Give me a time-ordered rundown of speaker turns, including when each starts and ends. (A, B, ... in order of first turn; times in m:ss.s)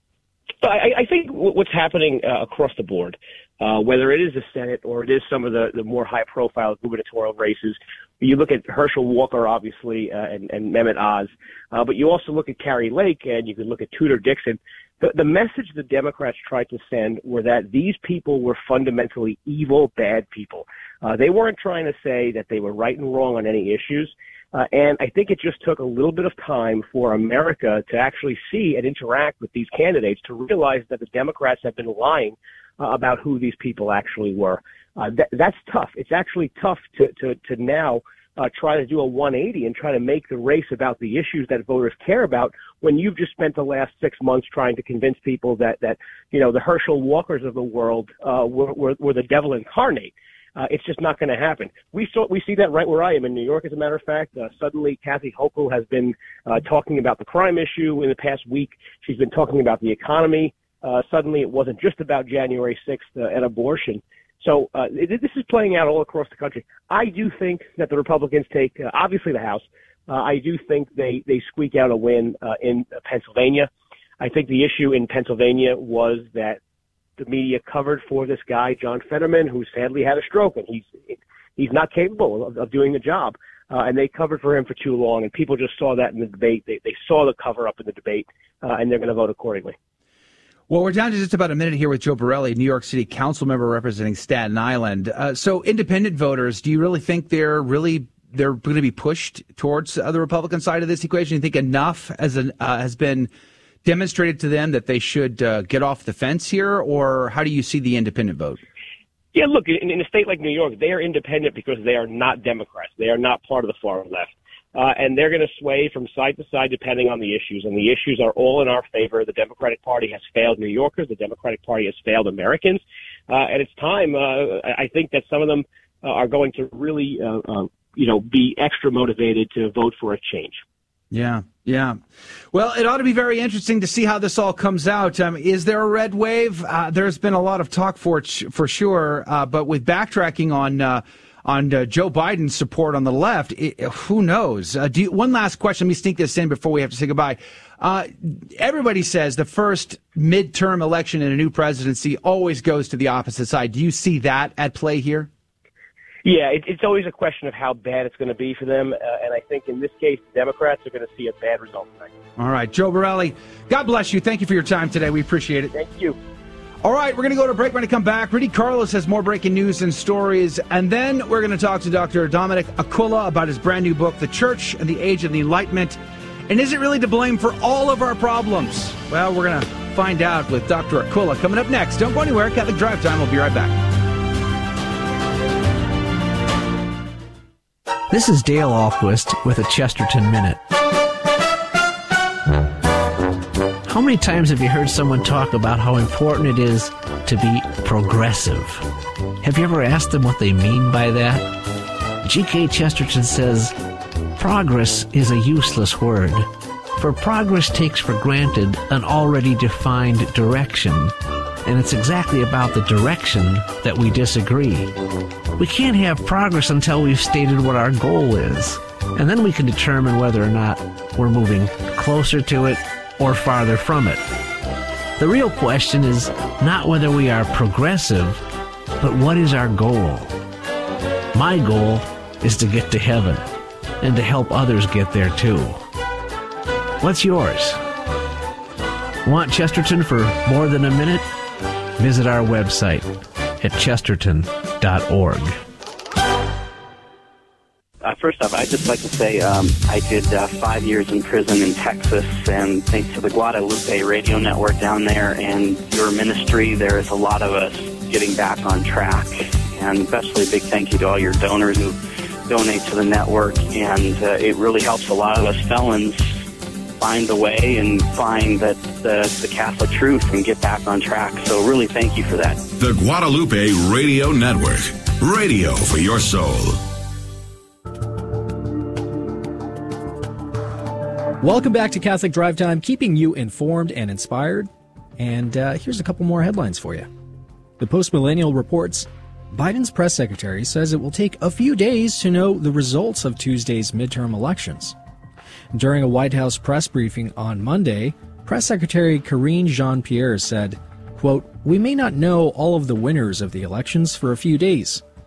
0:00.6-1:13.7 A
1:14.2-1:16.6 A
1:17.2-1:29.8 A
1:30.7-1:43.3 B
1:43.8-1:48.6 B
1:49.3-2:10.6 A
2:11.1-2:35.3 B
2:36.2-2:42.1 A
2:42.4-2:45.7 B
2:45.7-2:46.2 A
2:46.8-3:03.8 B
3:08.1-3:10.6 C
3:13.9-3:18.8 C
3:19.4-3:21.5 C
3:22.2-3:23.7 C
3:24.4-3:34.9 C
3:35.6-3:44.2 C
3:45.2-3:48.4 C
3:49.0-3:50.4 C
3:51.3-3:53.4 C
3:54.0-3:55.8 C
3:57.0-3:57.8 C
3:59.2-4:01.3 C
4:02.0-4:05.6 C
4:08.0-4:26.2 D
4:27.0-4:32.7 D
4:32.8-4:36.8 E
4:41.4-4:47.1 F
4:47.8-4:55.0 F
4:55.7-5:05.0 F